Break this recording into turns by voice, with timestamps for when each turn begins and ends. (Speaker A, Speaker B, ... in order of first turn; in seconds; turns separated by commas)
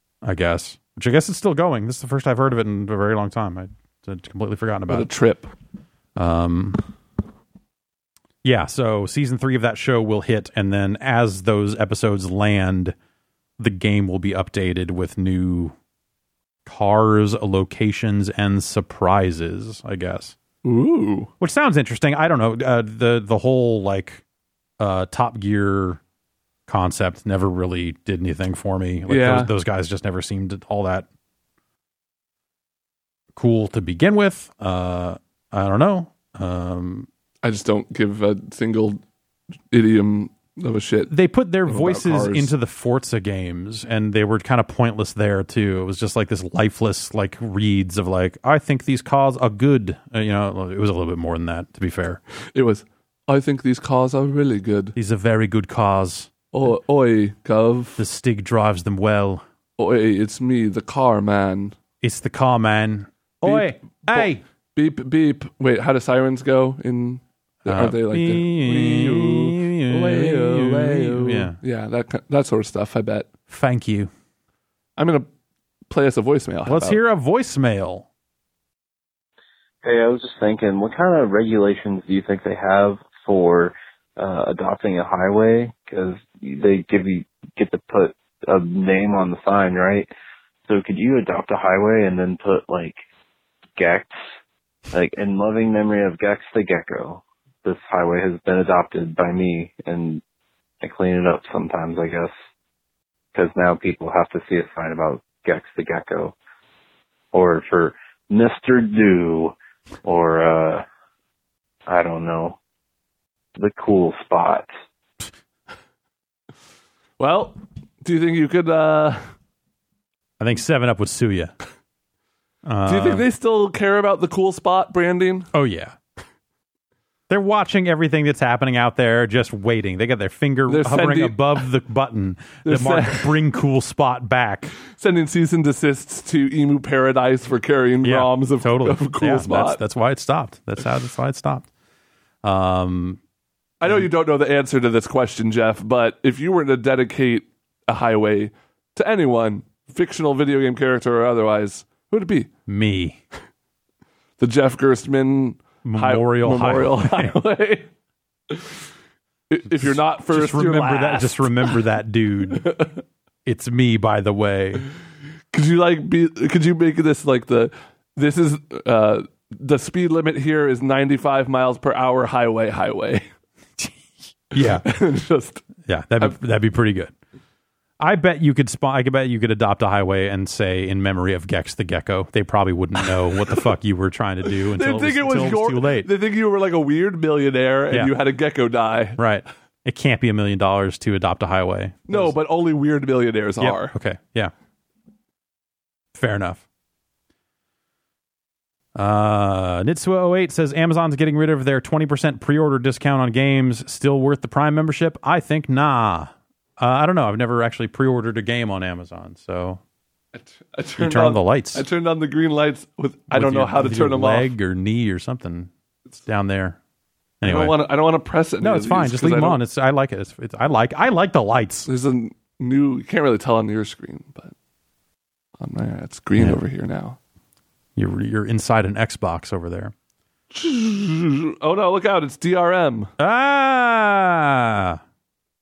Speaker A: 0.2-5.1, Speaker B: 4.9-5.5, Speaker A: 6.2-6.8, Speaker A: 8.4-12.9, Speaker A: 13.6-15.7, Speaker A: 16.6-20.4, Speaker B: 20.6-21.3, Speaker A: 21.4-24.2, Speaker A: 24.8-26.0, Speaker A: 26.7-31.1, Speaker B: 29.1-29.5, Speaker A: 33.4-37.1, Speaker B: 37.4-39.0, Speaker B: 39.7-41.1, Speaker A: 41.1-52.2, Speaker B: 41.6-42.5, Speaker B: 52.5-54.9, Speaker A: 55.0-56.3, Speaker B: 56.5-58.0, Speaker A: 58.0-59.4, Speaker B: 59.8-61.7, Speaker A: 62.0-64.4, Speaker B: 63.4-73.3, Speaker A: 67.7-71.5, Speaker A: 73.5-74.1, Speaker B: 75.0-75.2, Speaker B: 75.9-77.0, Speaker A: 76.7-78.0, Speaker C: 79.8-90.1, Speaker C: 90.7-93.0, Speaker C: 93.8-94.2, Speaker C: 94.9-100.2, Speaker C: 100.8-102.3, Speaker C: 103.3-106.3, Speaker C: 107.3-110.8, Speaker C: 111.9-112.6, Speaker C: 113.5-114.7, Speaker B: 117.2-119.2, Speaker A: 120.4-121.5, Speaker A: 122.7-123.2, Speaker B: 122.9-125.5, Speaker A: 125.5-126.0, Speaker A: 127.3-134.7, Speaker B: 130.7-131.6, Speaker B: 132.6-133.5, Speaker B: 134.9-139.8, Speaker A: 138.0-141.7, Speaker A: 142.4-143.2, Speaker B: 143.8-152.5, Speaker A: 152.7-153.2, Speaker B: 154.4-157.9, Speaker A: 155.8-157.3, Speaker B: 158.5-158.8, Speaker B: 159.5-161.8, Speaker A: 159.8-162.7, Speaker B: 162.5-163.0, Speaker A: 163.4-164.8, Speaker B: 165.5-173.2, Speaker A: 174.5-174.8, Speaker B: 174.6-175.6, Speaker A: 175.9-177.1, Speaker A: 178.0-186.1, Speaker B: 184.7-189.2, Speaker A: 189.2-192.3, Speaker B: 192.1-193.9, Speaker A: 193.6-194.5, Speaker A: 196.1-196.6, Speaker A: 198.9-209.8, Speaker B: 210.3-214.5, Speaker A: 211.0-211.8, Speaker A: 213.3-215.7, Speaker A: 216.2-216.8, Speaker A: 217.4-217.8, Speaker B: 217.4-219.6, Speaker A: 218.6-221.9, Speaker B: 221.9-224.5, Speaker B: 225.6-227.2, Speaker A: 227.9-229.9, Speaker B: 230.5-233.1, Speaker A: 233.2-235.0